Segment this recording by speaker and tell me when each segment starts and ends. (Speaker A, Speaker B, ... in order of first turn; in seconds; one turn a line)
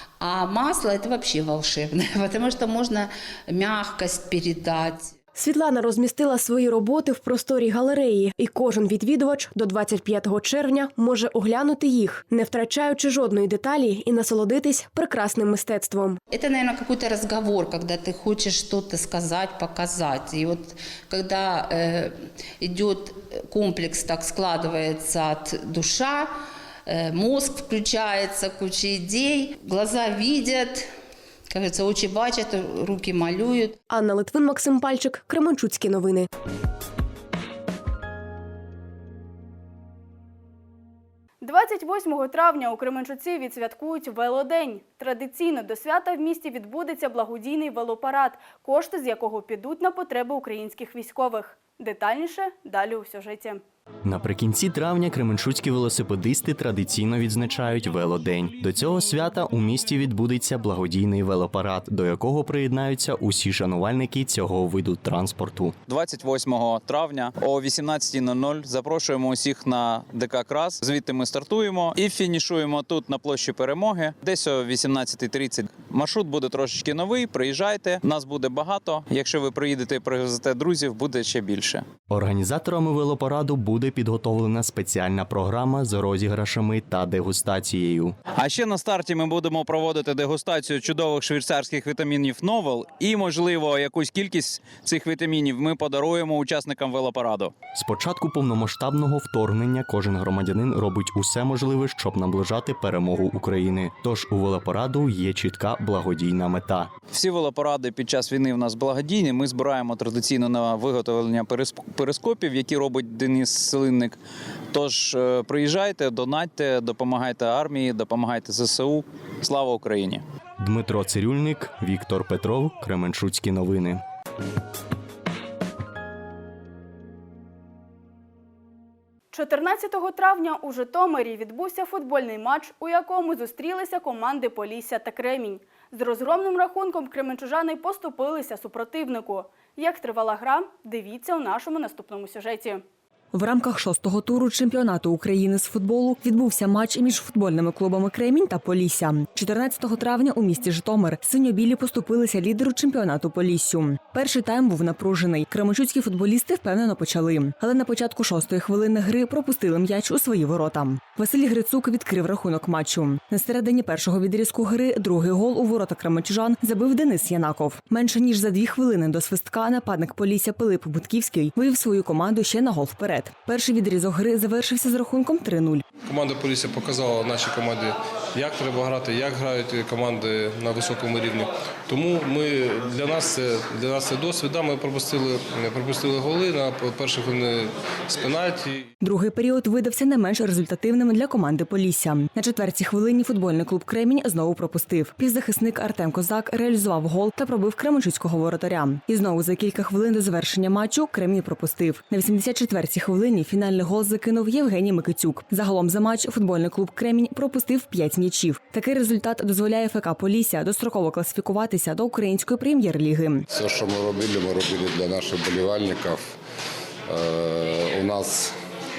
Speaker A: 0.2-5.1
Speaker B: 5.3-16.2
Speaker A: 16.3-26.3
Speaker A: 26.9-30.9
Speaker A: 31.5-33.8
Speaker B: 33.9-36.3
Speaker C: 41.4-53.6
Speaker D: 54.0-65.7
Speaker E: 65.9-81.8
Speaker D: 82.1-88.1
Speaker E: 88.3-97.5
Speaker D: 97.7-106.9
Speaker E: 107.1-114.2
Speaker E: 114.7-120.2
Speaker D: 120.6-124.0
Speaker C: 129.3-142.8
Speaker F: 143.3-175.8
Speaker G: 176.1-188.8
Speaker F: 189.0-213.5
Speaker H: 213.5-216.2
Speaker H: 217.1-218.5